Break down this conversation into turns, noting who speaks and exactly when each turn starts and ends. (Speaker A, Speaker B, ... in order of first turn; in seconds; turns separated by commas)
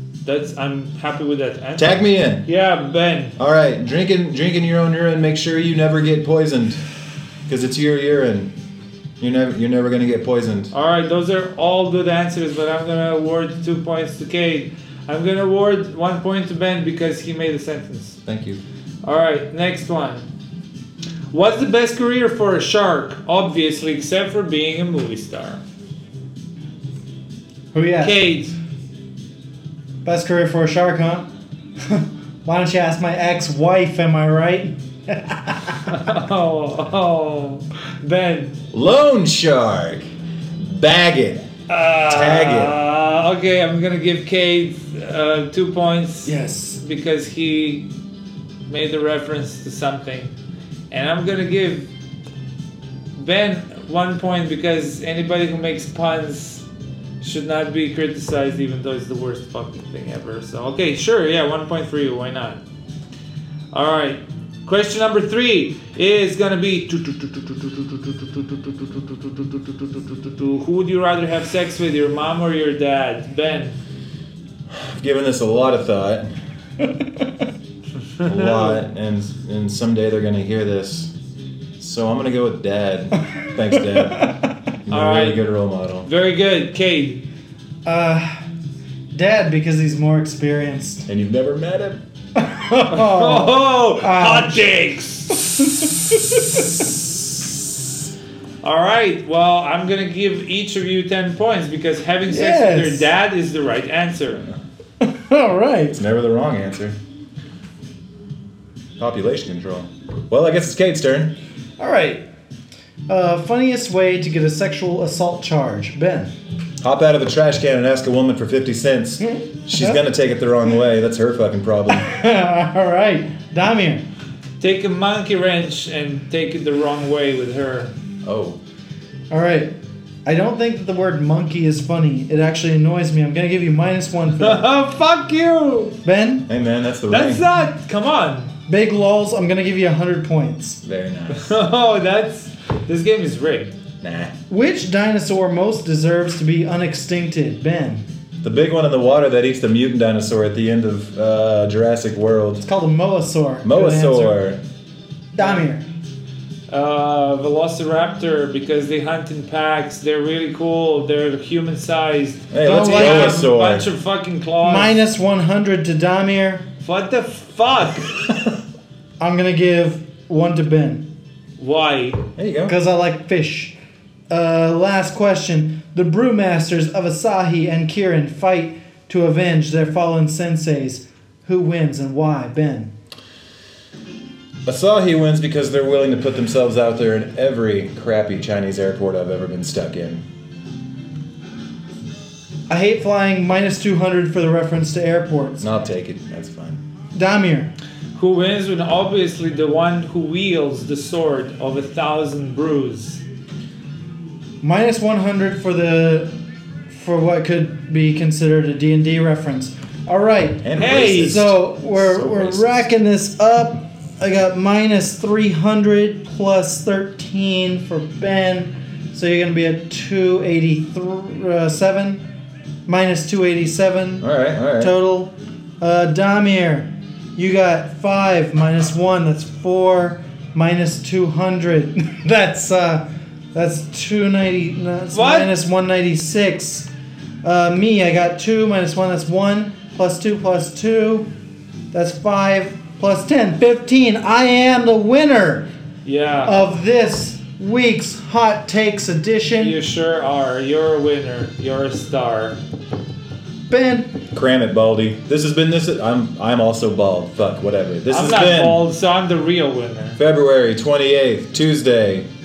Speaker A: 0.2-3.3, Speaker B: 1.8-2.5, Speaker B: 3.4-6.8, Speaker B: 7.5-8.5, Speaker B: 9.2-10.7, Speaker A: 10.7-18.2, Speaker B: 18.2-18.6, Speaker A: 19.0-20.2, Speaker A: 21.3-25.6, Speaker C: 27.7-28.2, Speaker A: 28.0-28.5, Speaker C: 30.0-31.3, Speaker C: 31.9-35.6, Speaker A: 35.8-38.6, Speaker B: 38.7-40.1, Speaker B: 40.6-41.5, Speaker A: 41.7-47.9, Speaker B: 42.1-42.8, Speaker C: 46.2-46.8, Speaker A: 48.7-50.3, Speaker A: 50.9-51.9, Speaker A: 53.2-56.6, Speaker A: 57.2-62.6, Speaker A: 63.7-73.8, Speaker B: 74.7-76.3, Speaker B: 78.2-81.1, Speaker A: 78.2-78.8, Speaker B: 81.8-84.3, Speaker B: 84.8-86.1, Speaker A: 84.9-85.4, Speaker A: 86.0-87.2, Speaker C: 87.8-88.4, Speaker C: 89.1-91.0, Speaker B: 91.1-92.0, Speaker C: 92.4-94.7, Speaker A: 92.9-95.5, Speaker C: 95.3-96.6, Speaker A: 98.6-104.5, Speaker C: 102.3-103.1, Speaker C: 105.0-106.0, Speaker B: 105.9-107.0, Speaker B: 109.0-111.3, Speaker C: 111.8-112.2, Speaker C: 113.1-116.3, Speaker B: 116.8-122.1, Speaker C: 119.3-120.0, Speaker C: 121.9-124.0, Speaker A: 124.6-127.9, Speaker B: 128.2-128.6, Speaker C: 129.3-129.7, Speaker C: 130.2-134.7, Speaker A: 134.4-136.0, Speaker C: 136.0-136.5, Speaker B: 136.5-137.4, Speaker A: 137.1-138.5, Speaker C: 138.7-140.8, Speaker B: 140.8-141.6, Speaker A: 141.3-143.7, Speaker B: 144.0-144.3, Speaker C: 144.5-148.0, Speaker B: 148.4-152.6, Speaker C: 152.6-154.4, Speaker B: 153.6-154.6, Speaker C: 155.3-155.8, Speaker A: 156.7-165.0, Speaker B: 162.5-163.8, Speaker C: 162.6-163.5, Speaker C: 164.6-166.6, Speaker A: 166.8-168.2, Speaker C: 169.2-171.1, Speaker A: 171.6-172.2, Speaker B: 172.4-172.7, Speaker C: 172.7-173.7, Speaker C: 174.3-182.9, Speaker B: 184.6-190.2, Speaker C: 192.7-195.7, Speaker B: 195.6-196.8, Speaker C: 197.1-197.7, Speaker A: 198.1-203.2, Speaker C: 204.6-206.3, Speaker C: 206.9-222.2, Speaker B: 210.6-212.8, Speaker A: 210.8-211.4, Speaker C: 222.9-224.3, Speaker B: 224.2-224.9, Speaker C: 224.8-233.0, Speaker C: 233.5-236.9, Speaker A: 235.1-235.5, Speaker C: 237.4-241.2, Speaker C: 241.9-245.7, Speaker A: 246.0-246.6, Speaker C: 246.4-249.8, Speaker A: 249.6-252.6, Speaker C: 253.7-254.2, Speaker B: 254.3-258.8, Speaker A: 258.1-260.2, Speaker B: 260.2-262.2